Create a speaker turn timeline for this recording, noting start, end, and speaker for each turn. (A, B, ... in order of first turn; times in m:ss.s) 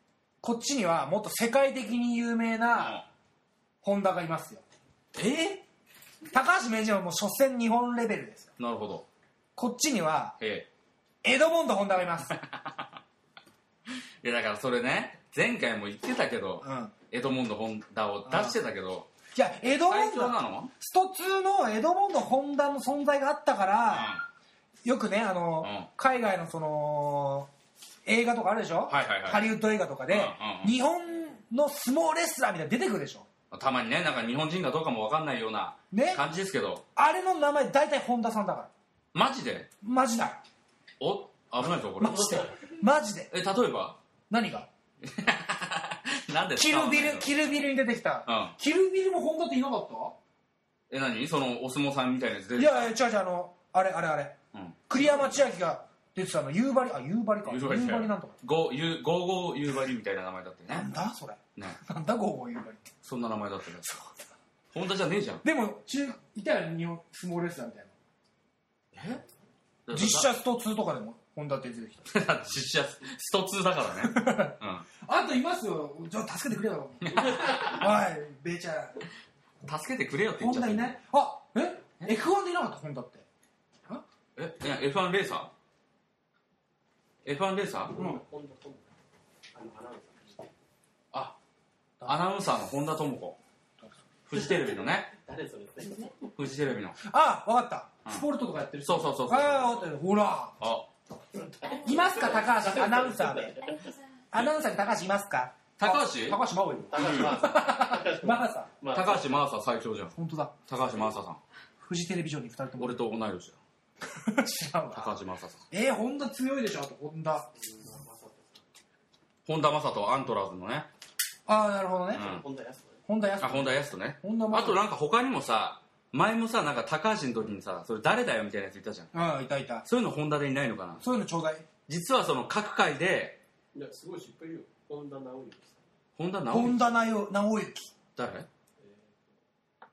0:00.4-0:03.0 A
0:02.8-0:03.0 B
0:03.8-0:04.6 A
0:05.1-0:05.6 B
0:06.3-0:08.5 A
0:08.6-0:09.1 B
0:09.6-0:10.4 A
0:10.4-0:10.7 B
0:11.2-0:12.4 A
0:12.3-0:12.9 B
0:13.9-0:19.1 B
0:16.6-0:16.9 A
0:18.2-0:18.6 A
0:19.3-0:24.1 A
0:19.9-0:20.7 B
0:23.9-0:24.2 B
0:24.8-0:27.5 A
0:25.6-0:25.9 B
0:28.0-0:33.3 A
0:28.9-0:29.4 B
0:30.1-0:30.7 B
0:33.5-0:36.8 B
0:35.9-0:36.2 A
0:36.9-0:38.7 A
0:39.1-0:39.7 B
0:39.8-0:40.4 A
0:41.0-0:42.5 B
0:42.0-0:43.3 A
0:43.3-0:44.0 B
0:44.3-0:44.7 A
0:45.0-0:47.3 B
0:46.6-0:50.2 A
0:48.2-0:48.5 B
0:50.9-0:52.9 B
0:52.6-0:54.4 A
0:54.5-0:54.8 B
0:54.9-0:58.4 A
0:57.5-1:00.9 B
1:00.7-1:02.9 A
1:03.0-1:03.9 B
1:03.8-1:04.1 A
1:04.7-1:05.4 B
1:05.4-1:07.9 A
1:08.9-1:09.2 B
1:09.8-1:10.3 B
1:09.9-1:12.1 A
1:12.1-1:14.8 B
1:14.0-1:19.0 A
1:17.0-1:17.8 B
1:19.6-1:21.0 B
1:20.4-1:23.2 A
1:24.4-1:25.5 B
1:27.2-1:28.0 B
1:27.9-1:28.8 C
1:29.5-1:30.5 C
1:31.1-1:31.4 B
1:32.0-1:33.4 B
1:34.3-1:35.1 B
1:34.3-1:36.3 C
1:36.4-1:37.0 B
1:37.0-1:40.6 A
1:38.8-1:39.8 B
1:40.6-1:40.9 B
1:41.3-1:43.9 C
1:41.7-1:43.6 A
1:44.3-1:48.7 A
1:45.8-1:46.4 B
1:46.8-1:49.3 C
1:46.9-1:47.5 B
1:48.9-1:50.1 B
1:50.2-1:50.5 A
1:50.7-1:51.4 B
1:51.8-1:53.0 A
1:52.8-1:53.6 B
1:54.1-1:55.1 A
1:54.9-1:55.6 B
1:55.7-1:57.5 A
1:57.6-1:58.6 C
1:59.4-2:00.9 B
2:01.5-2:02.3 A
2:02.1-2:03.0 C
2:02.1-2:02.4 B
2:03.1-2:04.8 A
2:03.4-2:09.1 B
2:09.1-2:09.8 A
2:09.8-2:11.0 B
2:11.0-2:11.7 A
2:11.9-2:13.4 B
2:13.7-2:15.8 C
2:16.2-2:16.9 B
2:16.5-2:17.9 A
2:18.2-2:18.5 B
2:18.8-2:19.3 C